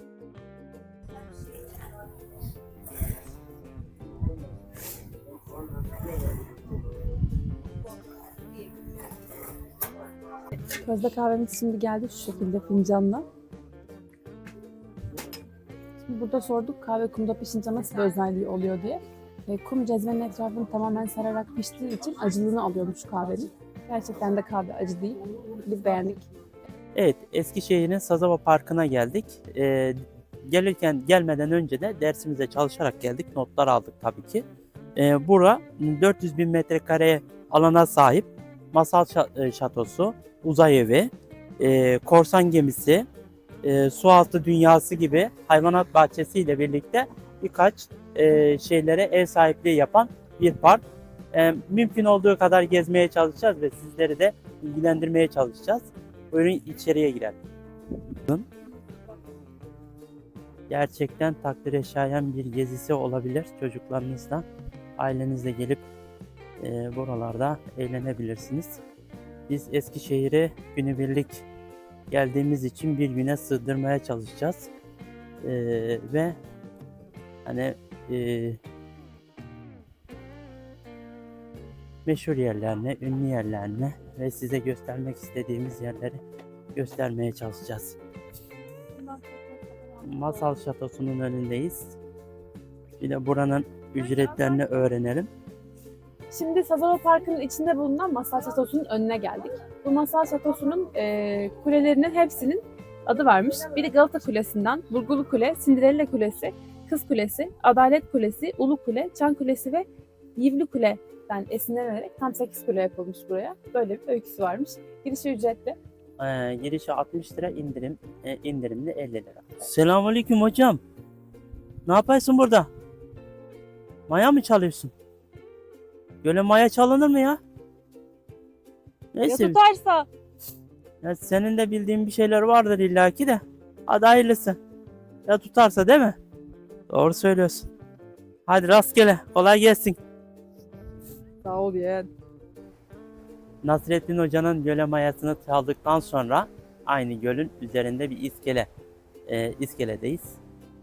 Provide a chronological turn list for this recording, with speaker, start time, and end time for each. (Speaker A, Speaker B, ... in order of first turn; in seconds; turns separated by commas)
Speaker A: 10.6-13.3, Speaker A: 16.1-26.3, Speaker B: 26.9-34.4, Speaker B: 35.0-43.1, Speaker B: 43.6-57.4, Speaker B: 58.2-58.5, Speaker B: 60.7-64.5, Speaker B: 65.0-65.8, Speaker B: 66.6-68.8, Speaker B: 69.5-71.5, Speaker B: 72.1-74.7, Speaker B: 75.4-76.4, Speaker B: 77.5-78.6, Speaker B: 82.1-86.2, Speaker B: 86.8-88.0, Speaker A: 89.0-90.6, Speaker B: 90.0-92.0, Speaker B: 93.0-95.3, Speaker A: 96.3-115.8, Speaker B: 116.2-120.8, Speaker B: 121.9-122.7, Speaker B: 124.1-124.9, Speaker B: 126.2-127.4, Speaker B: 129.1-129.6, Speaker A: 129.3-130.1, Speaker B: 131.0-134.6, Speaker B: 135.3-136.2, Speaker B: 136.9-137.7, Speaker B: 138.5-140.0, Speaker A: 141.4-142.1, Speaker B: 143.6-148.7, Speaker B: 149.3-150.4